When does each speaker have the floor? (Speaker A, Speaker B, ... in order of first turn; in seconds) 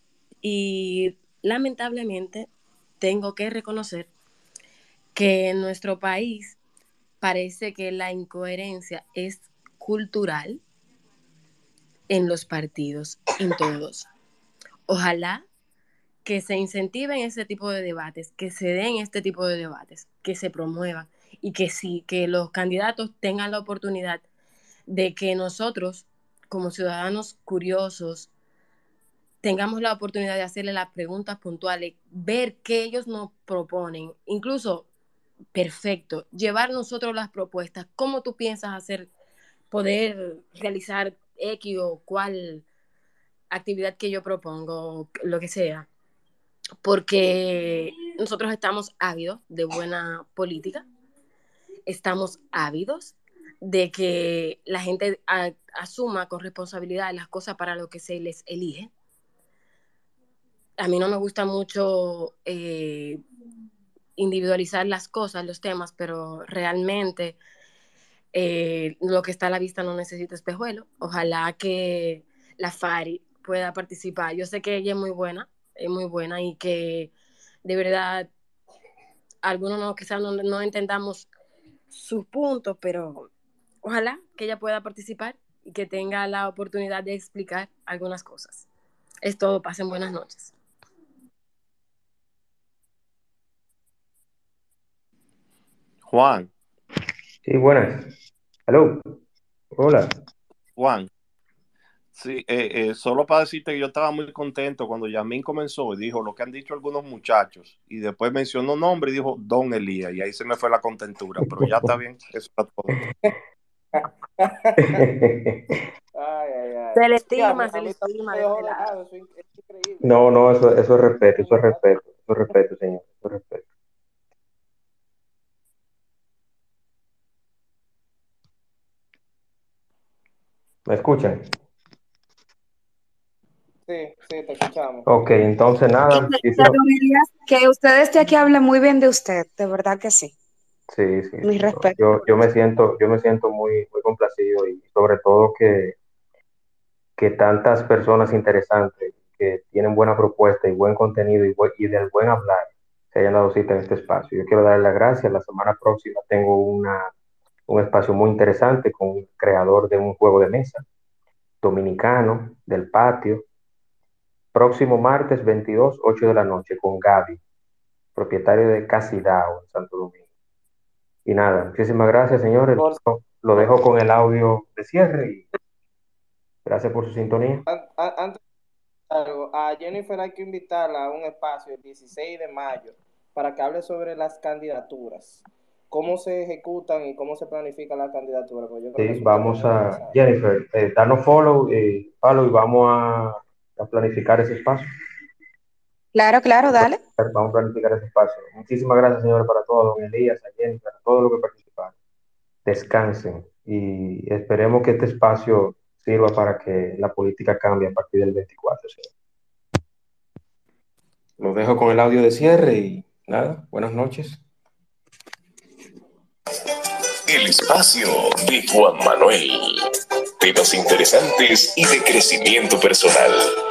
Speaker A: 0.4-2.5, 3.0-4.1, 5.1-6.6, 7.2-10.6, 12.1-14.1, 14.9-15.4, 16.2-24.2, 24.9-28.3, 29.4-34.9, 35.5-39.1, 39.7-42.6, 43.5-45.9, 46.8-50.8, 51.9-58.9, 60.8-63.2, 64.2-67.4, 68.3-77.1, 77.6-78.3, 79.4-81.3, 81.9-83.3, 83.8-88.7, 89.2-90.5, 116.9-118.9
Speaker B: 96.0-96.5, 100.8-101.1, 102.1-113.0
Speaker C: 97.4-98.1, 98.7-99.2, 99.7-100.2, 111.5-111.9, 114.8-115.6, 120.0-123.6, 130.8-131.5, 135.1-136.8, 140.9-145.9, 147.2-157.1, 157.7-160.8, 161.6-163.4, 164.5-167.4, 168.2-170.2, 171.2-175.4, 176.6-177.6, 189.0-194.9, 196.7-201.9, 202.6-209.1, 211.4-214.4
Speaker D: 114.0-115.0, 116.1-120.1, 121.3-121.9, 133.9-135.1, 177.7-178.4, 179.1-190.2
Speaker E: 136.1-140.3, 141.4-142.5, 196.1-197.0
Speaker F: 217.2-219.8, 220.4-223.4